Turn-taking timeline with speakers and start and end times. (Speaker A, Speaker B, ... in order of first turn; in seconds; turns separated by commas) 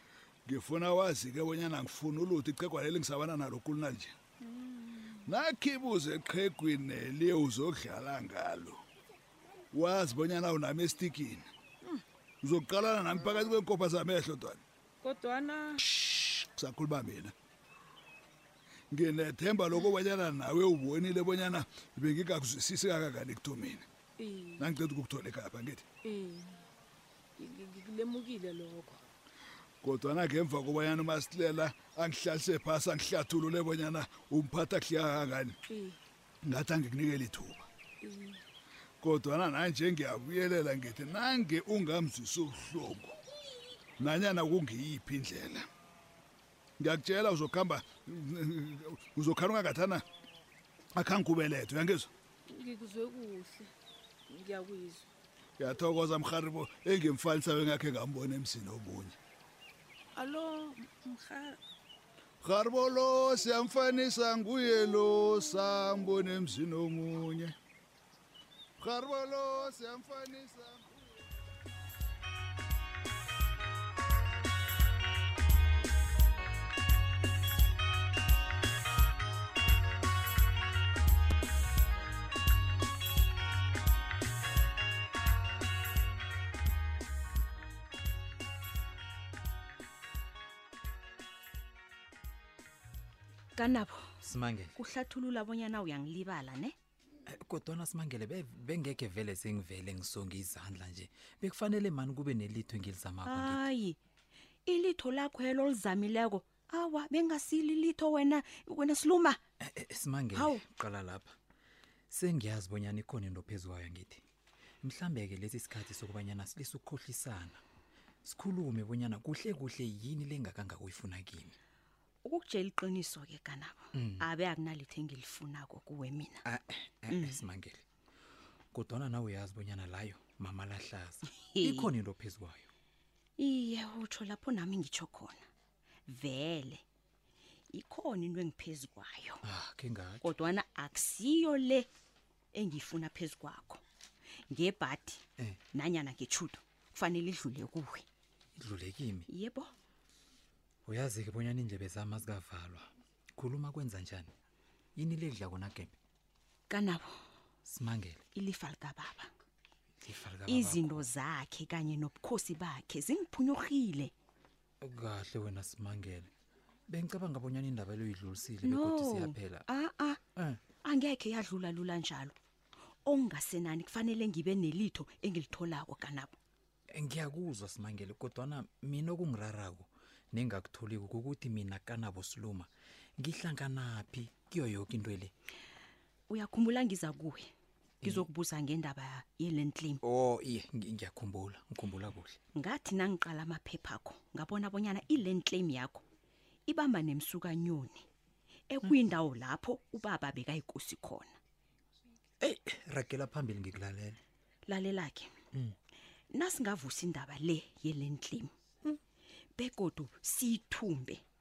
Speaker A: 0.5-4.2, Speaker B: 4.4-5.3, Speaker A: 5.2-8.8, Speaker A: 9.7-11.5, Speaker A: 12.4-14.6, Speaker B: 15.0-15.8, Speaker A: 15.9-17.3, Speaker A: 18.9-23.8, Speaker B: 24.2-24.7, Speaker A: 24.6-25.8, Speaker B: 26.0-26.6, Speaker B: 27.4-29.0, Speaker A: 29.8-35.6, Speaker B: 35.7-36.0, Speaker A: 36.4-37.6, Speaker B: 38.0-38.4, Speaker A: 39.0-43.1, Speaker A: 44.0-45.6, Speaker A: 46.8-50.0, Speaker A: 50.9-52.1, Speaker B: 52.5-53.7, Speaker B: 54.3-55.0, Speaker A: 55.6-59.2, Speaker B: 60.1-61.6, Speaker A: 62.4-67.5, Speaker A: 68.8-70.9, Speaker C: 93.5-94.1, Speaker D: 94.2-94.8, Speaker C: 94.8-96.7, Speaker D: 97.3-103.7, Speaker C: 103.2-104.0, Speaker C: 104.7-109.4, Speaker D: 109.6-111.3, Speaker C: 110.3-110.6, Speaker D: 112.1-114.2, Speaker D: 114.8-117.6, Speaker D: 118.2-121.5, Speaker C: 122.2-126.4, Speaker D: 123.9-124.2, Speaker D: 126.4-127.8, Speaker C: 127.1-127.4, Speaker D: 128.7-132.7, Speaker C: 131.6-131.9, Speaker C: 133.4-135.4, Speaker C: 136.1-136.8, Speaker C: 137.7-139.4, Speaker D: 139.4-140.3, Speaker C: 140.2-141.9, Speaker C: 142.5-143.8, Speaker C: 144.5-145.2, Speaker C: 145.7-148.0, Speaker D: 148.6-149.3, Speaker C: 149.3-149.7, Speaker D: 150.8-154.3, Speaker D: 155.0-155.9, Speaker C: 156.7-157.1, Speaker D: 157.6-158.2, Speaker C: 158.3-159.3, Speaker D: 160.0-161.1, Speaker C: 160.4-164.1, Speaker D: 164.8-166.3, Speaker D: 166.9-169.7, Speaker C: 168.6-170.2, Speaker D: 170.3-170.6, Speaker C: 170.8-172.3, Speaker C: 173.1-176.3, Speaker D: 176.9-185.3, Speaker C: 186.3-187.5, Speaker D: 188.0-188.3, Speaker C: 188.0-190.0, Speaker D: 190.0-192.4, Speaker C: 192.5-196.0, Speaker C: 196.7-198.0, Speaker C: 198.7-201.3, Speaker D: 202.4-204.2, Speaker C: 204.7-205.3, Speaker C: 206.3-208.9, Speaker C: 209.6-211.2